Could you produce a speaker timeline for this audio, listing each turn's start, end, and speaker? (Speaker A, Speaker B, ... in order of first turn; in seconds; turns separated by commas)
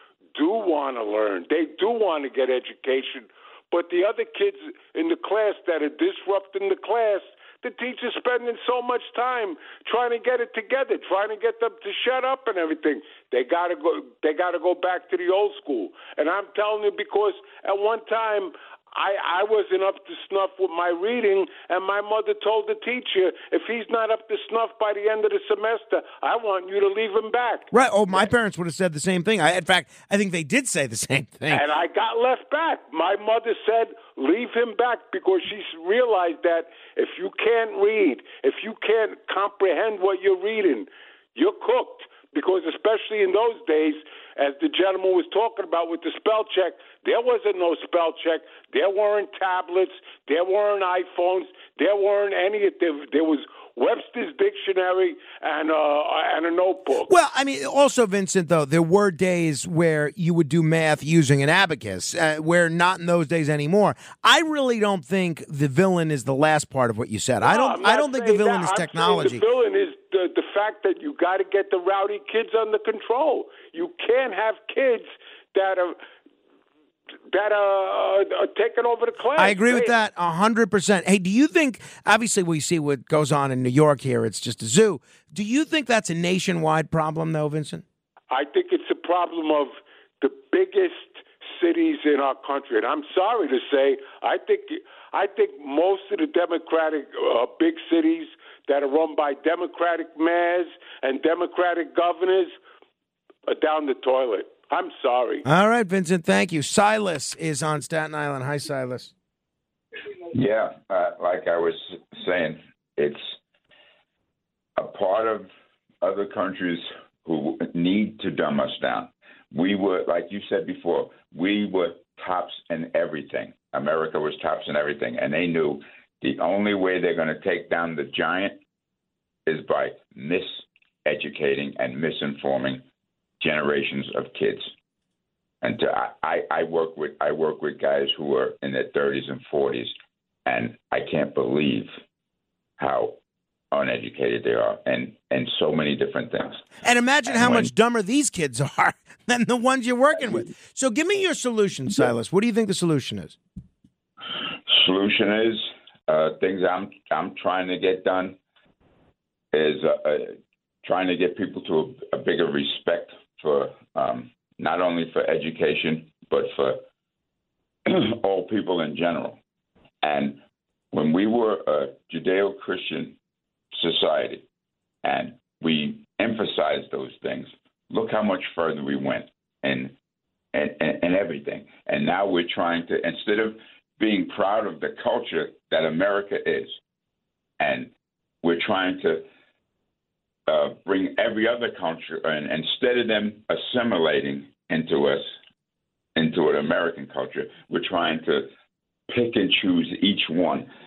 Speaker A: 0.3-27.7, Speaker B: 27.7-31.6, Speaker A: 31.5-57.1, Speaker B: 57.1-69.4, Speaker A: 67.4-76.0, Speaker A: 77.3-79.9, Speaker B: 79.3-87.8, Speaker A: 88.3-102.5, Speaker A: 103.5-105.4, Speaker B: 105.5-109.1, Speaker C: 110.3-113.3, Speaker C: 114.8-115.5, Speaker C: 116.0-128.6, Speaker C: 129.4-132.8, Speaker C: 133.4-134.7, Speaker C: 135.6-139.9, Speaker C: 140.4-141.9, Speaker C: 142.8-143.2, Speaker C: 143.7-146.7, Speaker B: 146.8-153.4, Speaker C: 147.3-147.7, Speaker C: 154.7-158.4, Speaker C: 159.5-166.8, Speaker C: 167.8-169.4, Speaker C: 170.0-170.4, Speaker C: 170.9-173.2, Speaker C: 173.7-174.4, Speaker C: 175.0-179.9, Speaker C: 180.5-186.8, Speaker C: 187.6-187.9, Speaker C: 188.4-189.2, Speaker C: 190.5-195.3, Speaker C: 196.2-198.5, Speaker C: 199.1-200.7